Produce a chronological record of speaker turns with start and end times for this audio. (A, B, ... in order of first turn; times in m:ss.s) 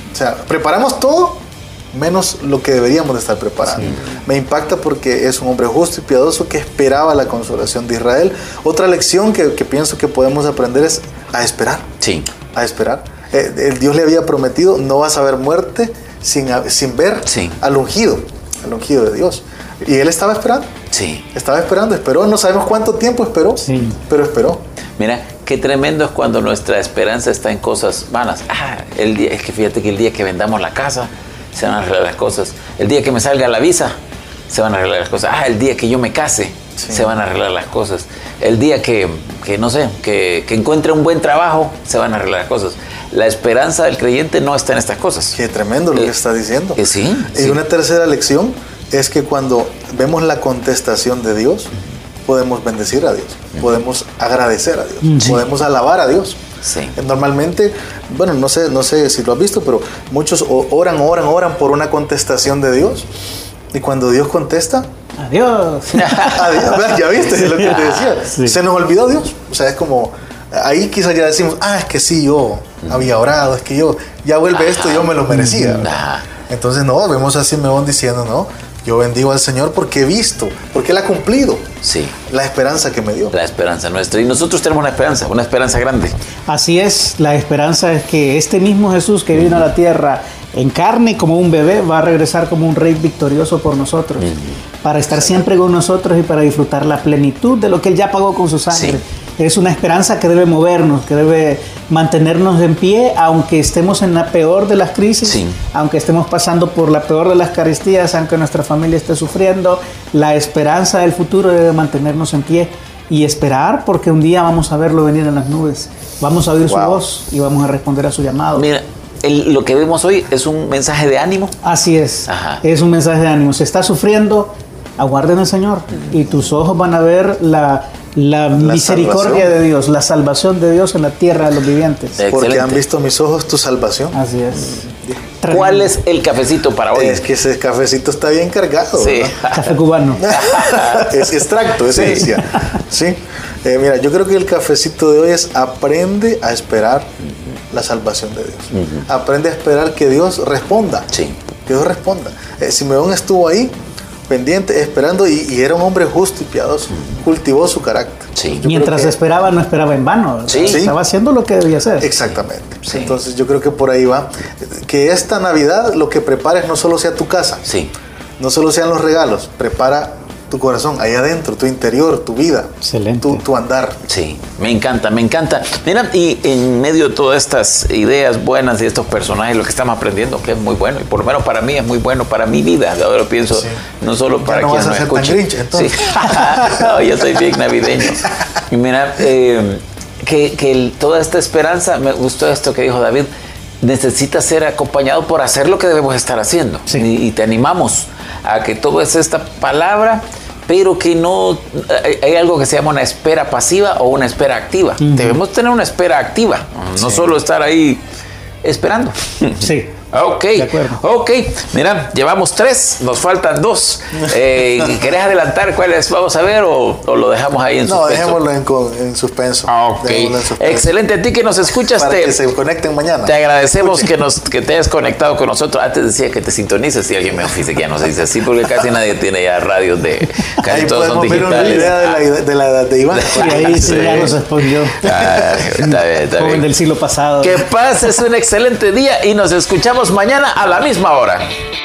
0:00.1-0:11.9 A
0:12.0-0:12.3 B
0:12.5-0:20.7 A
0:17.3-0:17.6 B
0:20.9-0:21.2 B
0:21.3-0:24.6 A
0:23.6-0:24.0 C
0:25.0-0:34.0 B
0:34.5-0:45.4 B
0:36.8-0:37.1 A
0:45.3-0:46.8 A
0:46.8-0:47.6 B
0:47.3-0:51.7 A
0:52.2-0:56.4 A
0:55.0-0:55.4 C
0:56.6-0:56.9 B
0:56.9-1:03.1 A
1:03.7-1:04.9 A
1:05.2-1:06.8 C
1:05.9-1:06.7 B
1:06.2-1:15.9 A
1:07.3-1:08.6 C
1:07.7-1:08.1 B
1:14.5-1:16.2 B
1:15.3-1:15.8 C
1:16.5-1:21.7 A
1:21.8-1:22.1 B
1:22.3-1:23.3 A
1:23.3-1:26.1 B
1:26.5-1:34.3 C
1:34.2-1:34.5 B
1:34.8-1:58.7 C
1:38.7-1:39.0 B
1:45.2-1:45.5 B
1:56.7-1:57.0 B
1:58.6-2:01.6 B
2:01.6-2:12.2 C
2:02.3-2:02.6 B
2:08.5-2:09.5 A
2:12.2-2:12.8 B
2:12.3-2:14.2 A
2:14.1-2:14.8 C
2:15.4-2:15.9 C
2:15.5-2:17.2 B
2:16.9-2:19.4 A
2:19.0-2:21.2 B
2:19.5-2:20.6 C
2:20.2-2:27.1 A
2:21.9-2:22.3 B
2:27.7-2:31.1 A
2:28.7-2:29.0 B
2:31.6-2:33.8 A
2:34.3-2:39.2 A
2:38.4-2:38.6 B
2:38.6-2:42.1 C
2:40.5-2:40.8 B
2:40.6-2:40.9 A
2:42.0-2:47.7 A
2:42.8-2:43.2 B
2:47.7-2:47.9 B
2:48.4-2:54.0 A
2:52.8-2:53.4 C
2:54.1-3:13.3 B
3:04.4-3:06.8 A
3:13.8-3:28.0 B
3:25.0-3:25.4 C
3:28.6-3:38.4 B
3:29.6-3:29.9 C
3:30.5-3:31.0 C
3:37.8-3:40.9 A
3:39.7-3:42.4 B
3:41.9-3:44.1 A
3:43.2-3:52.2 B
3:50.6-3:54.4 A
3:51.3-3:51.8 C
3:53.1-3:54.4 B
3:53.3-3:55.0 C
3:55.0-3:56.6 B
3:55.1-3:55.3 A
3:55.7-3:57.6 C
3:57.4-4:01.5 B